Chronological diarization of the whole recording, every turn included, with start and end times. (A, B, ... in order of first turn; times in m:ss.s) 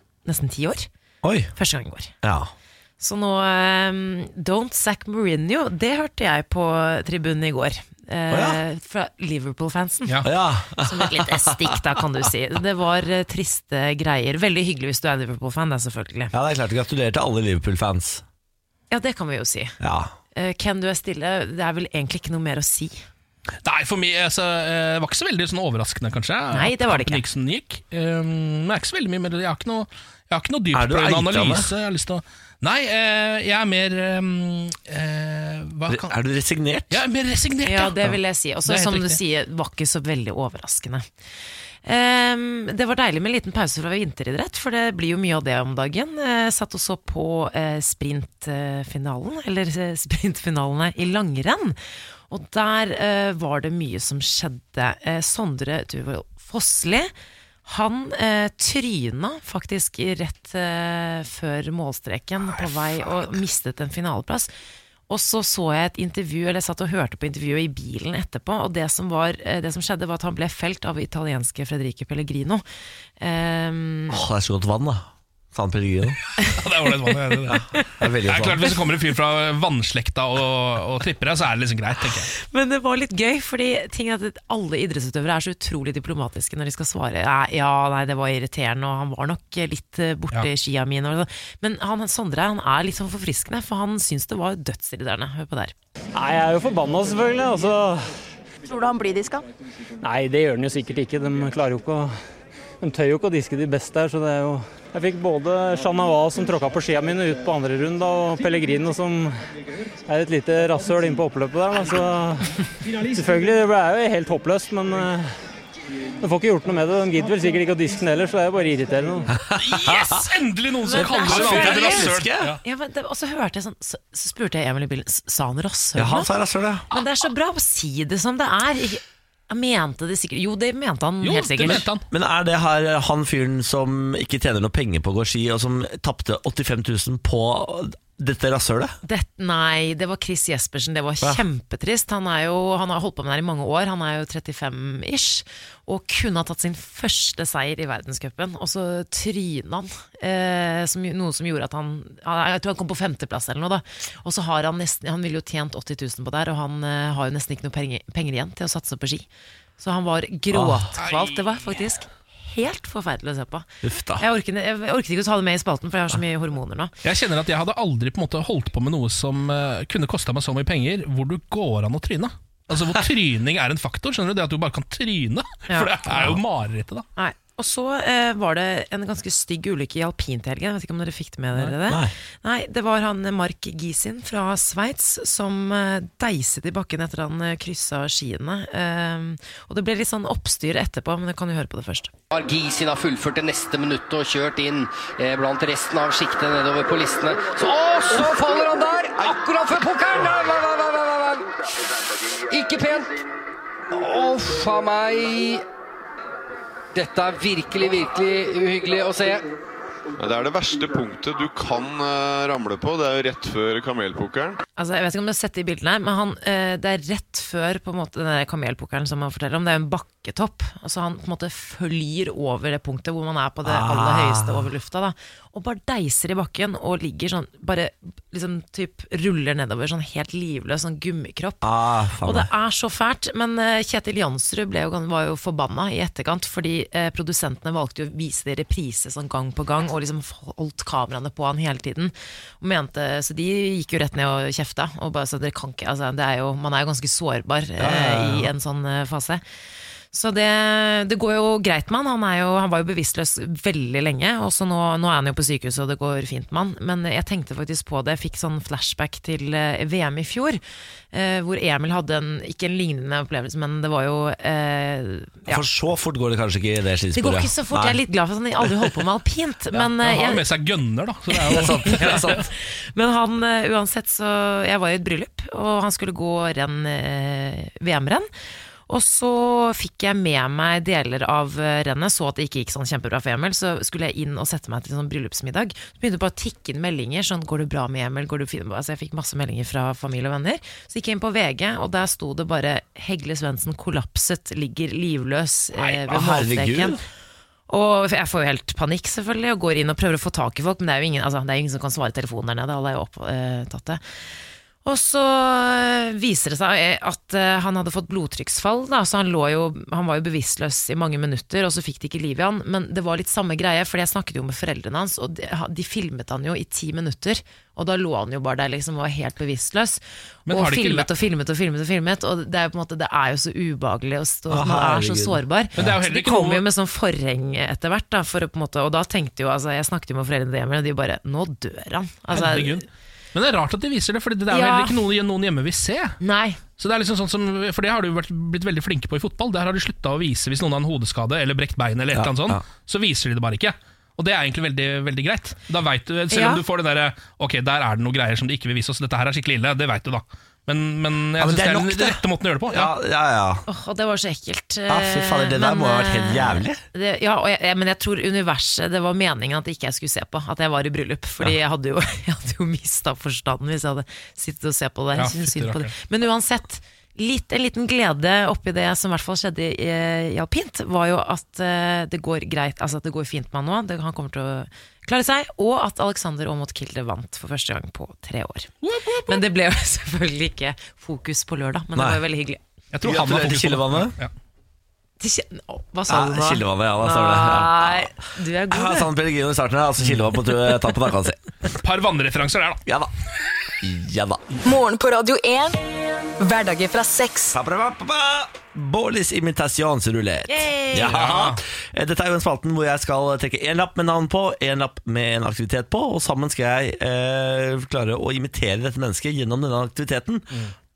0:00.2-0:00.9 A
0:01.2-0:01.5 B
0:01.6-0:02.1 A
0:02.2-0:02.5 B
0:03.0-0:10.2 A
0:08.3-0:08.6 B
0:10.2-0:11.8 B
0:10.8-0:16.3 A
0:16.3-0:18.2 B
0:18.9-0:19.8 A
0:19.8-0:20.1 B
0:20.3-0:23.0 A
0:23.6-0:36.2 C
0:26.5-0:27.2 A
0:30.7-0:31.7 B
0:35.9-0:37.0 B
0:36.9-0:39.2 C
0:37.6-0:41.1 A
0:41.8-0:51.8 A
0:52.3-0:57.1 A
0:57.7-1:04.5 A
1:05.1-1:12.6 A
1:13.2-1:14.2 A
1:14.1-1:16.2 B
1:16.5-1:17.7 C
1:17.5-1:18.7 B
1:18.2-1:22.3 C
1:22.4-1:35.7 A
1:36.2-1:38.0 D
1:40.0-1:42.2 D
1:42.8-1:49.4 D
1:50.1-1:52.5 D
1:53.1-1:55.3 D
1:56.2-1:59.3 D
1:59.5-2:00.2 B
1:59.6-2:02.6 C
2:00.9-2:06.3 A
2:01.0-2:02.6 B
2:06.0-2:06.9 B
2:06.9-2:11.8 A
2:11.2-2:12.1 C
2:11.7-2:19.0 B
2:19.0-2:39.3 A
2:39.8-2:46.9 A
2:40.5-2:40.9 B
2:41.0-2:41.5 C
2:43.8-2:44.2 B
2:47.0-2:57.0 C
2:55.7-2:56.2 A
2:57.2-3:12.1 A
3:01.9-3:02.1 B
3:12.3-3:21.5 E
3:22.5-3:23.2 E
3:23.9-3:25.6 E
3:27.0-3:29.5 E
3:30.2-3:34.6 F
3:34.8-3:51.7 A
3:43.6-3:44.7 B
3:51.6-3:52.5 B
3:52.2-4:09.4 A
4:07.8-4:08.5 B
4:10.1-4:20.6 A
4:21.1-4:25.6 A
4:25.5-4:28.0 B
4:27.2-4:30.4 A
4:30.0-4:32.4 C
4:31.4-4:32.5 B
4:31.9-4:32.4 A
4:32.9-4:38.3 A
4:38.9-4:57.0 A
4:56.0-4:57.0 B
4:57.7-5:04.0 A
5:04.8-5:32.8 A
5:20.5-5:21.1 C
5:24.5-5:26.0 B
5:25.8-5:26.6 C
5:32.3-5:36.2 C
5:34.5-5:35.0 A
5:36.2-5:36.6 A
5:36.8-5:52.9 C
5:42.1-5:42.6 B
5:46.3-5:46.6 A
5:51.4-5:53.6 B
5:53.7-6:18.7 A
5:54.9-5:56.8 B
6:05.2-6:05.9 C
6:18.8-6:19.4 C
6:19.3-6:22.6 A
6:22.0-6:22.2 B
6:22.9-6:24.3 C
6:23.0-6:24.2 B
6:25.2-6:29.1 A
6:26.1-6:28.1 B
6:28.7-6:31.4 B
6:31.7-6:32.8 C
6:32.9-6:33.1 B
6:33.8-6:34.5 B
6:34.6-6:35.8 G
6:36.4-6:37.6 G
6:37.5-6:50.5 B
6:40.5-6:41.2 A
6:41.0-6:41.6 C